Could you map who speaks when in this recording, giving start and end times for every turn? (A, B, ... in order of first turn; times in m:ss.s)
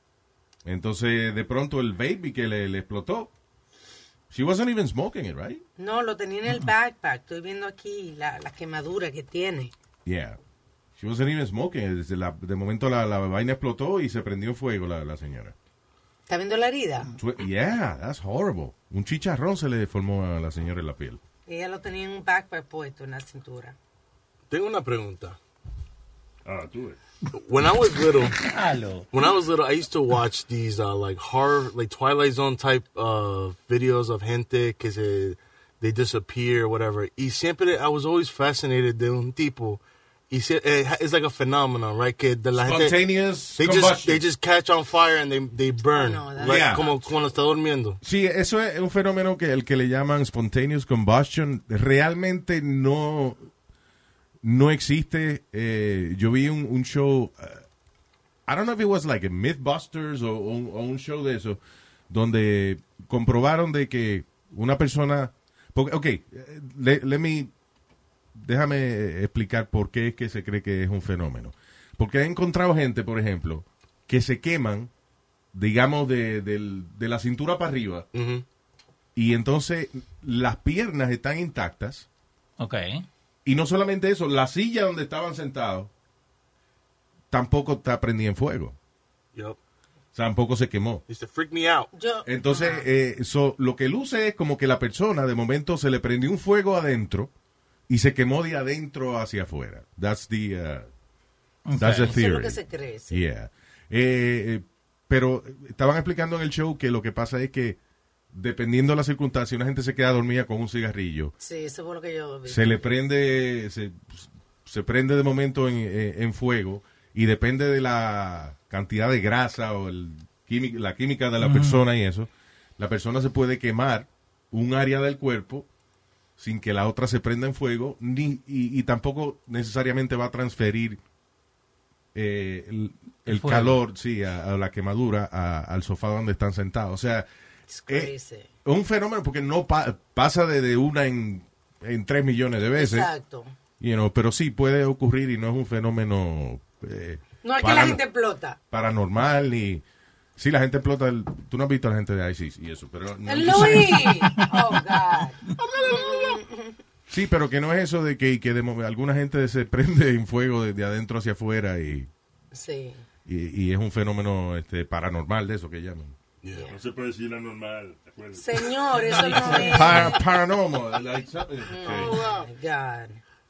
0:00.6-0:03.3 A
0:04.3-0:05.6 A
0:05.8-0:09.7 B
0:10.0-0:10.4 A
0:11.0-0:15.6 A
0:16.3-0:17.1 B
0:17.2-0:21.2 A
0:21.5-0:23.8 B
0:24.5-0:25.4 C
0:26.4-0:27.0 D
0:27.3-0:28.4 C
0:28.4-0:29.1 E
0:29.1-0:43.0 C
0:42.6-0:44.2 A
0:43.6-0:48.0 C
0:45.9-0:47.1 B
0:46.4-0:46.8 A
0:48.0-0:53.5 A
0:54.4-0:57.6 A
0:58.5-1:07.5 A
1:08.3-1:14.9 A
1:15.5-1:18.1 A
1:18.1-1:18.4 C
1:19.2-1:22.1 A
1:22.6-1:23.1 E
1:23.4-1:25.9 A
1:27.3-1:28.8 A
1:30.1-1:31.0 A
1:31.1-1:31.9 C
1:31.9-1:32.9 B
1:32.3-1:37.3 A
1:37.9-1:40.9 A
1:41.7-1:42.2 E
1:41.8-1:47.8 A
1:42.0-1:43.2 B
1:48.3-1:51.3 A
1:51.4-1:52.9 B
1:52.5-2:05.7 A
2:01.4-2:01.8 E
2:06.4-2:11.0 A
2:12.2-2:17.3 A
2:13.3-2:13.8 E
2:17.7-2:18.5 B
2:18.6-2:23.1 A
2:22.8-2:23.5 B
2:23.8-2:28.0 A
2:27.4-2:28.6 B
2:28.7-2:29.8 A
2:30.4-2:34.3 A
2:33.3-2:36.8 B
2:35.6-2:36.4 C
2:37.1-2:42.1 A
2:42.5-2:43.0 B
2:43.3-2:46.2 A
2:46.4-2:46.7 C
2:46.7-2:48.9 D
2:48.3-2:50.2 B
2:49.2-2:50.1 E
2:49.5-2:52.2 A
2:51.7-2:53.2 B
2:51.8-2:52.5 C